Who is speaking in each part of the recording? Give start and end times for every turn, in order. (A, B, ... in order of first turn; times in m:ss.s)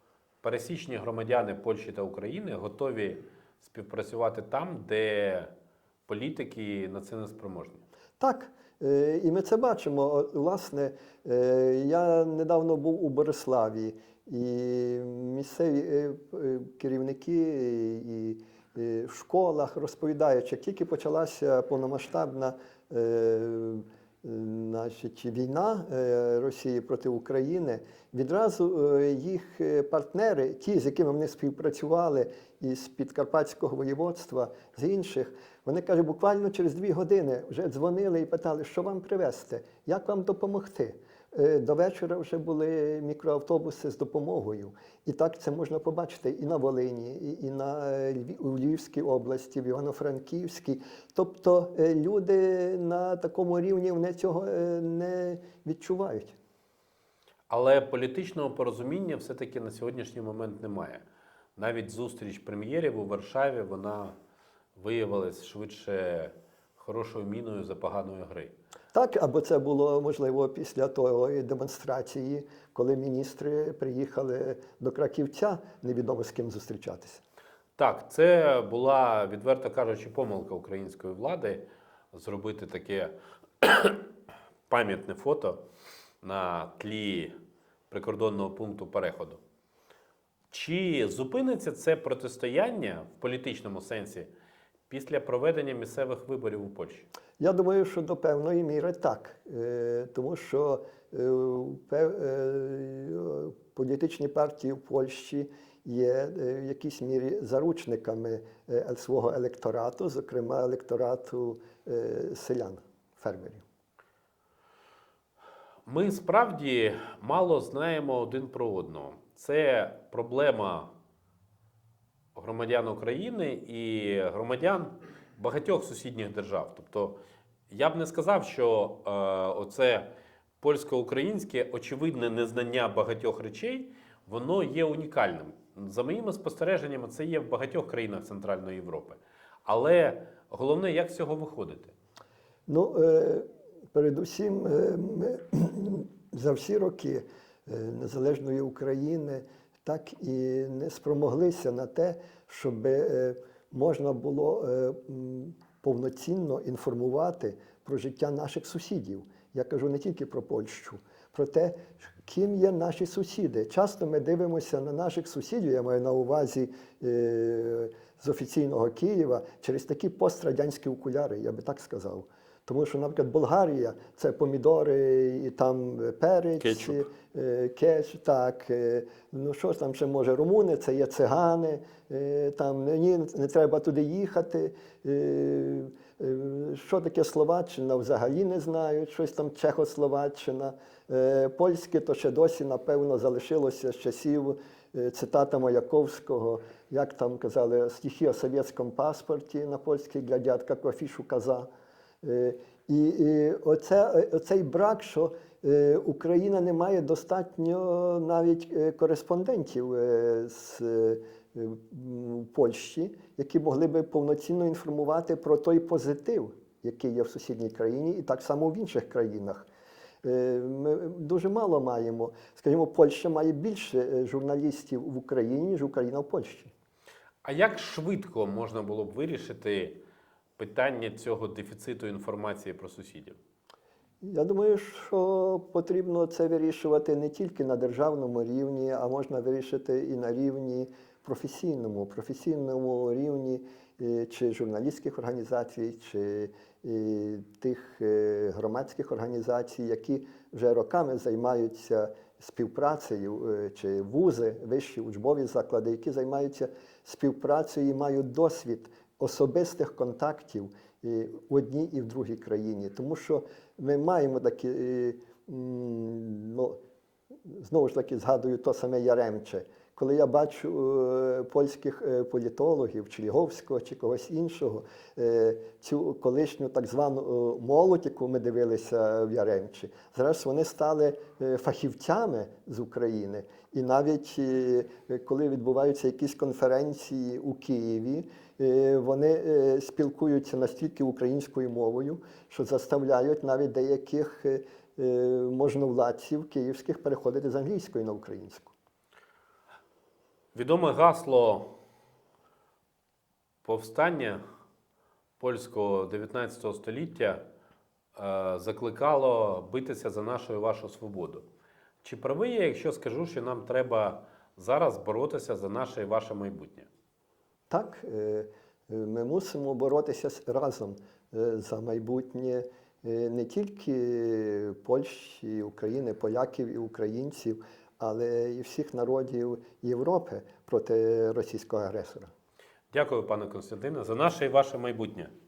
0:00.4-0:05.5 A
0:06.1-0:07.8 A
0:08.2-0:56.4 B
0:57.5-1:01.0 A
1:01.6-1:04.1 A
1:04.8-1:08.5 A
1:08.9-1:17.2 B
1:17.8-1:24.1 A
1:24.7-1:25.6 A
1:26.2-1:27.3 A
1:27.9-1:29.4 A
1:30.5-1:34.3 A
1:34.9-1:37.1 A
1:37.4-1:53.6 B
1:55.9-2:00.9 A
2:02.4-2:10.1 A
2:10.6-2:21.9 A
2:22.7-3:21.7 B
2:56.6-2:57.0 A
3:22.2-3:39.7 B
3:40.2-3:46.7 B
3:47.4-3:50.0 A
3:50.6-3:53.4 A
3:54.2-4:26.8 B
4:27.5-4:58.7 B
5:00.5-5:01.8 A
5:03.6-5:04.4 A
5:05.4-5:07.4 A
5:08.2-5:11.4 A
5:12.0-5:16.9 A
5:17.7-5:32.3 B
5:32.9-5:35.3 A